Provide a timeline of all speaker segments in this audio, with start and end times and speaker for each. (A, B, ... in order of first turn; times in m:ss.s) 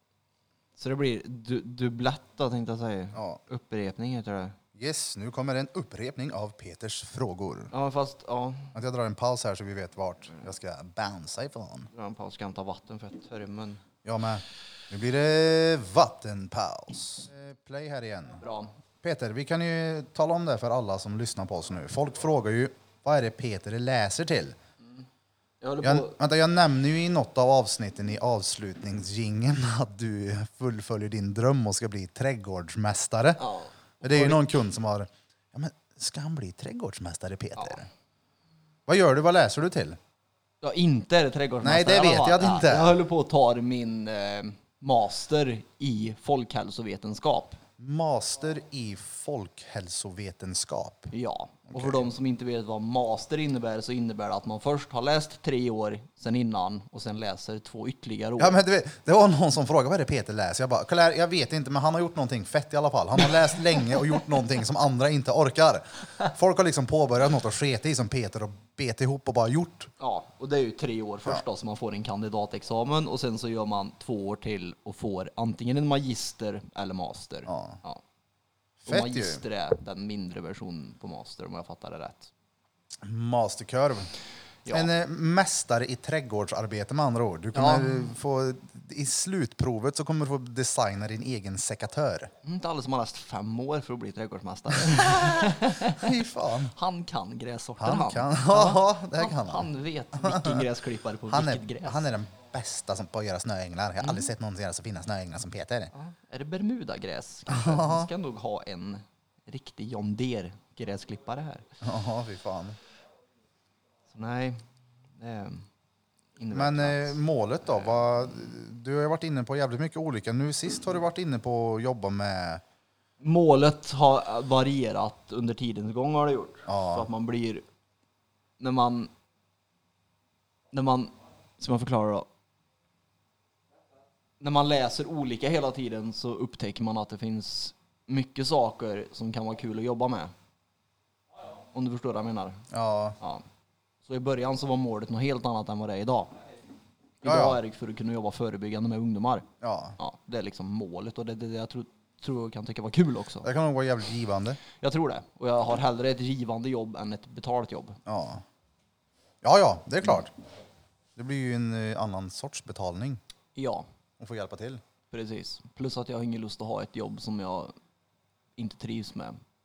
0:00.8-0:04.6 A
0:03.1-0:03.4 B
0:04.7-0:07.7 B
0:07.7-0:08.7 A
0:08.7-0:11.9 B
0:11.9-0:13.8 A
0:14.0-0:18.4 B
0:18.4-0:18.7 A
0:19.0-0:24.6 B
0:25.6-0:26.2 A
0:25.8-0:33.4 B
0:33.4-0:34.4 A
0:34.0-0:37.9 B
0:38.9-0:40.0 B
0:40.6-0:47.6 A
0:41.6-0:43.0 B
0:47.8-0:51.1 B
0:51.1-0:58.6 A
0:51.7-0:52.0 B
0:58.4-1:09.9 B
1:10.0-1:18.0 A
1:17.5-1:17.8 B
1:18.8-1:19.4 B
1:18.8-1:22.3 A
1:23.0-1:24.1 B
1:24.7-1:32.3 B
1:27.5-1:28.1 A
1:32.4-1:36.1 A
1:34.9-1:36.7 B
1:36.7-1:42.0 A
1:37.8-1:40.7 B
1:41.3-1:45.9 B
1:45.9-1:51.6 A
1:47.5-1:48.1 B
1:51.8-1:52.8 B
1:54.1-1:54.6 A
1:55.2-1:55.6 A
1:56.4-1:57.2 A
1:56.5-2:02.6 B
2:03.2-2:07.6 A
2:06.7-2:07.1 B
2:08.6-2:09.1 A
2:10.7-2:12.3 A
2:14.4-2:20.3 A
2:21.7-2:22.6 A
2:22.7-2:23.2 B
2:23.2-2:23.4 A
2:24.1-2:26.3 A
2:27.2-2:33.5 A
2:27.2-2:27.6 B
2:29.6-2:30.0 B
2:33.4-2:34.6 B
2:34.8-2:38.0 A
2:38.1-2:38.4 B
2:39.4-2:40.3 B
2:41.2-2:43.2 B
2:43.6-2:43.8 A
2:44.2-2:44.8 B
2:45.1-2:47.7 A
2:48.6-2:49.4 A